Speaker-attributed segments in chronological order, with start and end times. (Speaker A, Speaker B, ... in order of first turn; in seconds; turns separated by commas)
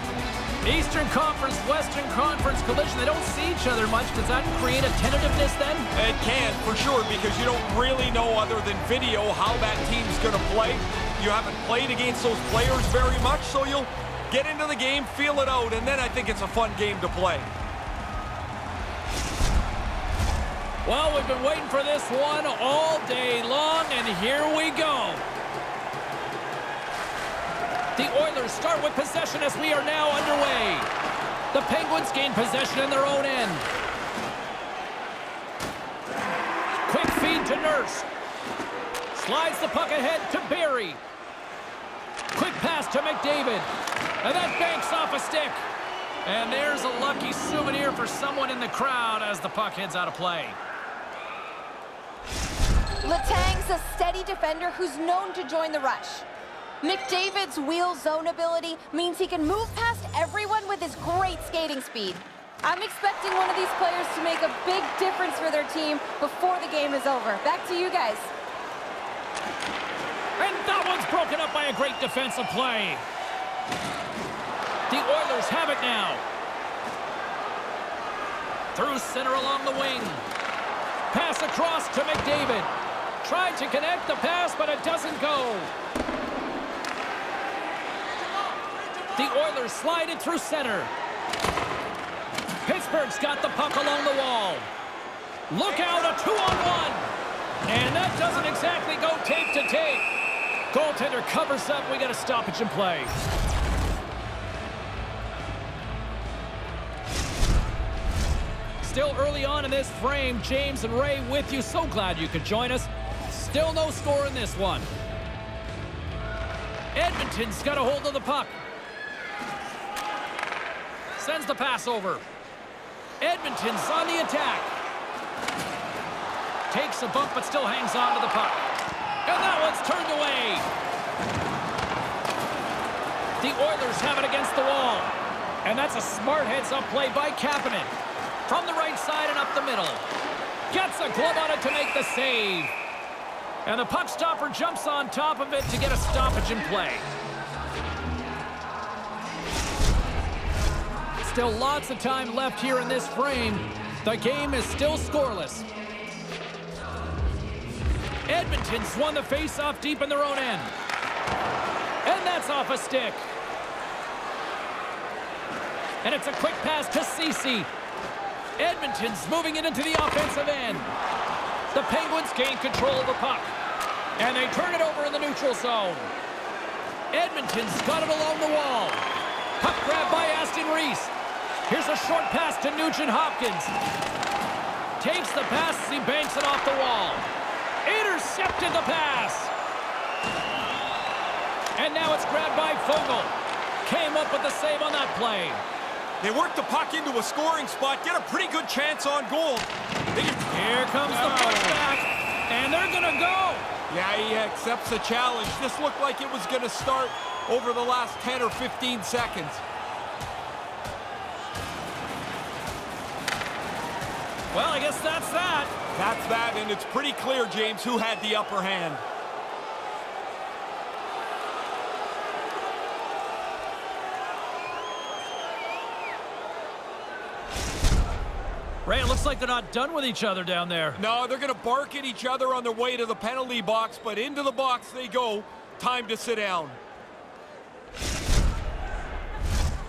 Speaker A: 0.6-5.9, Speaker B: 5.9-17.5, Speaker A: 20.8-25.2, Speaker A: 27.9-30.9, Speaker A: 31.5-33.7, Speaker A: 36.9-38.1, Speaker A: 39.1-41.0, Speaker A: 42.3-43.7, Speaker A: 44.2-45.6, Speaker A: 46.2-50.6, Speaker C: 53.0-56.2, Speaker C: 56.8-68.3, Speaker A: 70.4-73.0, Speaker A: 74.9-76.2, Speaker A: 78.8-80.2, Speaker A: 81.1-85.7, Speaker A: 89.2-90.9, Speaker A: 92.7-94.7, Speaker A: 95.5-97.1, Speaker A: 97.7-100.1, Speaker A: 100.7-103.1, Speaker A: 108.8-114.9, Speaker A: 116.9-118.5, Speaker A: 121.2-122.2, Speaker A: 123.2-124.7, Speaker A: 126.7-128.6, Speaker A: 129.2-130.7, Speaker A: 133.4-135.1, Speaker A: 135.6-137.9, Speaker A: 138.5-140.0, Speaker A: 140.7-142.7, Speaker A: 143.7-147.1, Speaker A: 151.2-155.7, Speaker A: 158.3-160.7, Speaker A: 162.1-163.2, Speaker A: 166.0-167.7, Speaker A: 168.6-170.9, Speaker A: 171.7-173.5, Speaker A: 174.2-176.1, Speaker A: 177.1-179.0, Speaker A: 179.6-181.1, Speaker A: 181.7-183.7, Speaker A: 185.0-187.3, Speaker A: 187.8-189.5, Speaker A: 191.8-195.6, Speaker B: 196.2-201.8, Speaker A: 200.5-203.7, Speaker B: 203.9-209.6, Speaker A: 214.5-215.7, Speaker B: 215.9-219.0, Speaker A: 228.9-231.0, Speaker B: 231.0-236.8